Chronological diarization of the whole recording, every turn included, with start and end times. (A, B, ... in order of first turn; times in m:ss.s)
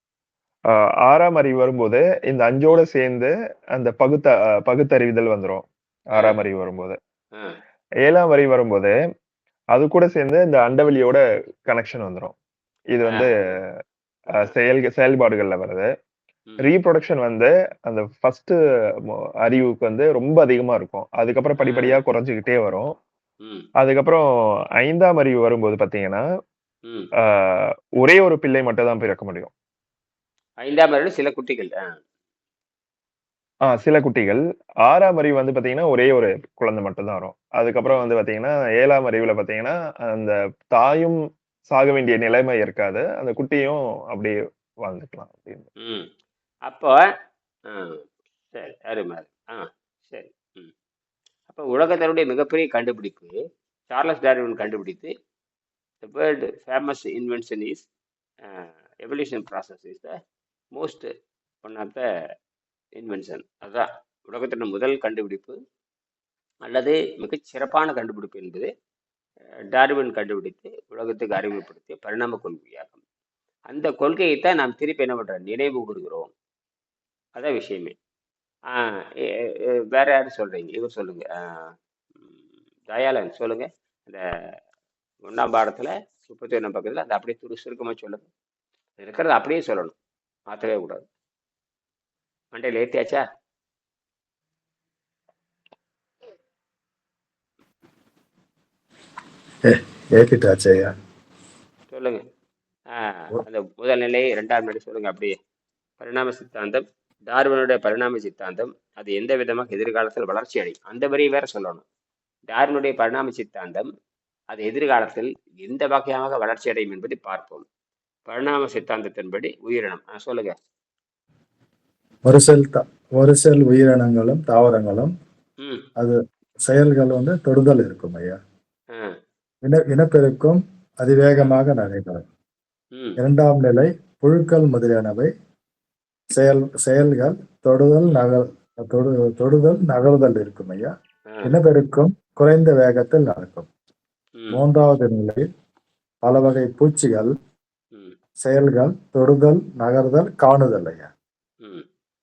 0:00.7-0:07.0 A
0:08.0-0:08.9 A
0:09.7-0:12.3 A
0:12.9-0:13.7 A
0:13.1-0:13.6 B
0:14.3-0:15.9 A
0:16.6-0:18.6 A
0:19.1-0:22.9 A
0:21.6-0:22.0 B
0:23.8-0:24.2 A
0:24.8-0:26.2 A
0:27.2-0:29.5 A
0:30.6-0:32.0 B
0:33.6-0:45.7 A
0:45.8-0:46.1 B
0:46.6-0:46.9 B
0:47.7-0:48.0 B
0:48.5-0:50.7 B
0:51.5-0:53.3 B
0:53.9-0:55.1 B
0:56.0-0:57.8 B
0:58.4-1:00.2 B
1:00.8-1:01.1 B
1:01.6-1:02.0 B
1:03.0-1:05.6 B
1:06.6-1:08.7 B
1:09.7-1:13.0 B
1:13.7-1:16.3 B
1:17.4-1:17.9 B
1:18.7-1:21.7 B
1:22.9-1:24.2 B
1:25.2-1:28.3 B
1:29.0-1:29.9 B
1:30.5-1:31.0 B
1:32.5-1:33.2 B
1:39.6-1:40.9 C
1:41.9-1:42.2 B
1:42.9-1:45.4 B
1:46.0-1:51.8 B
1:52.5-1:53.9 B
1:54.5-1:57.6 B
1:58.2-2:00.5 B
2:02.2-2:05.1 C
2:06.0-2:08.4 C
2:08.9-2:09.2 B
2:09.6-2:12.2 C
2:13.2-2:15.3 C
2:16.3-2:20.9 C
2:21.4-2:23.7 C
2:24.4-2:24.6 B
2:24.5-2:25.5 C
2:26.2-2:27.4 C
2:28.4-2:31.1 C